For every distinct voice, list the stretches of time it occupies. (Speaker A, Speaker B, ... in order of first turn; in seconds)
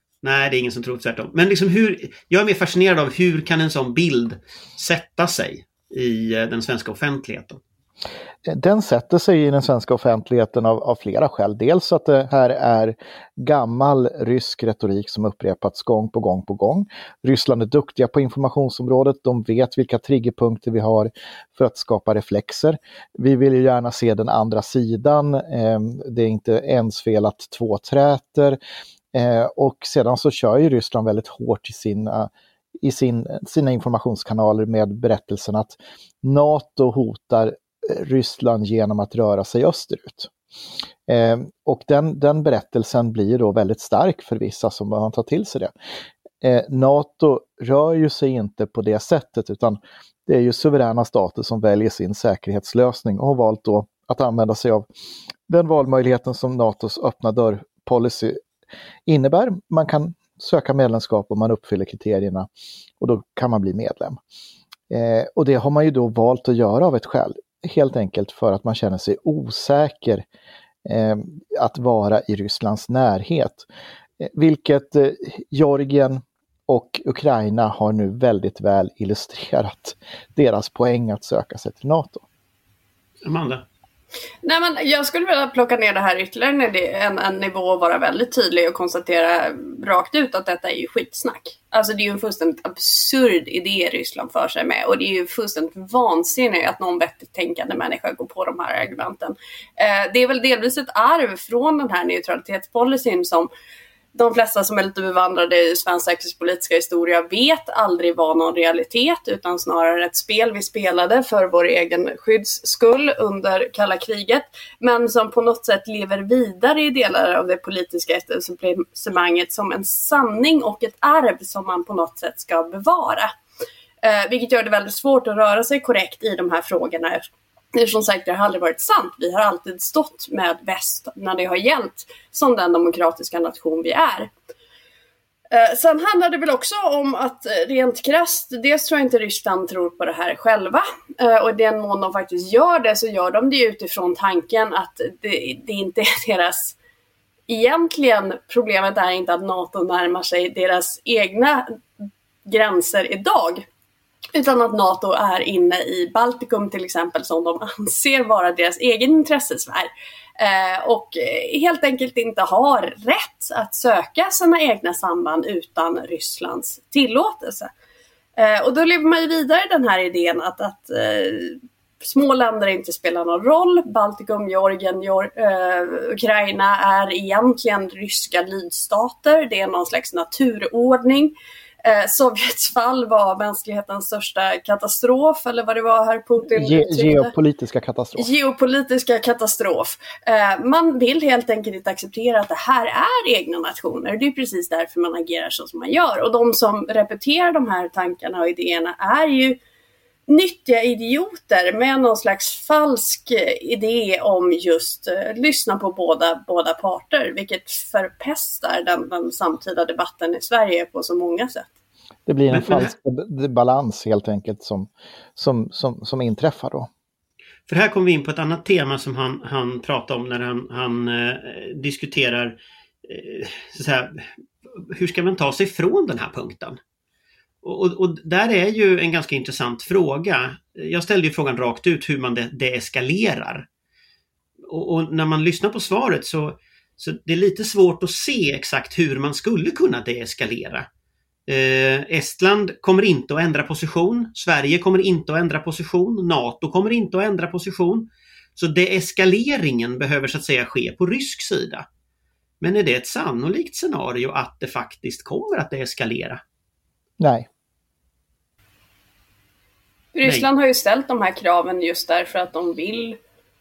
Speaker A: 0.2-7.6, 83.2-83.6, 212.5-212.9, 217.7-224.3, 224.9-226.8, 227.6-233.7, 234.7-240.9, 241.5-251.9, 252.6-256.4
Speaker B: 8.5-28.6, 29.1-32.3, 32.8-40.3, 41.1-45.7, 46.4-54.9, 55.5-58.4, 59.1-62.5, 63.0-64.2, 64.9-70.3, 70.8-73.7, 74.2-82.2, 186.5-188.3, 212.3-216.9, 257.2-257.5
Speaker C: 84.4-103.5, 104.1-123.3, 124.0-127.2, 127.8-134.3, 135.5-146.8, 147.5-151.7, 152.5-153.7, 154.3-167.7, 168.4-187.3, 188.2-199.6, 200.3-211.7, 260.1-263.2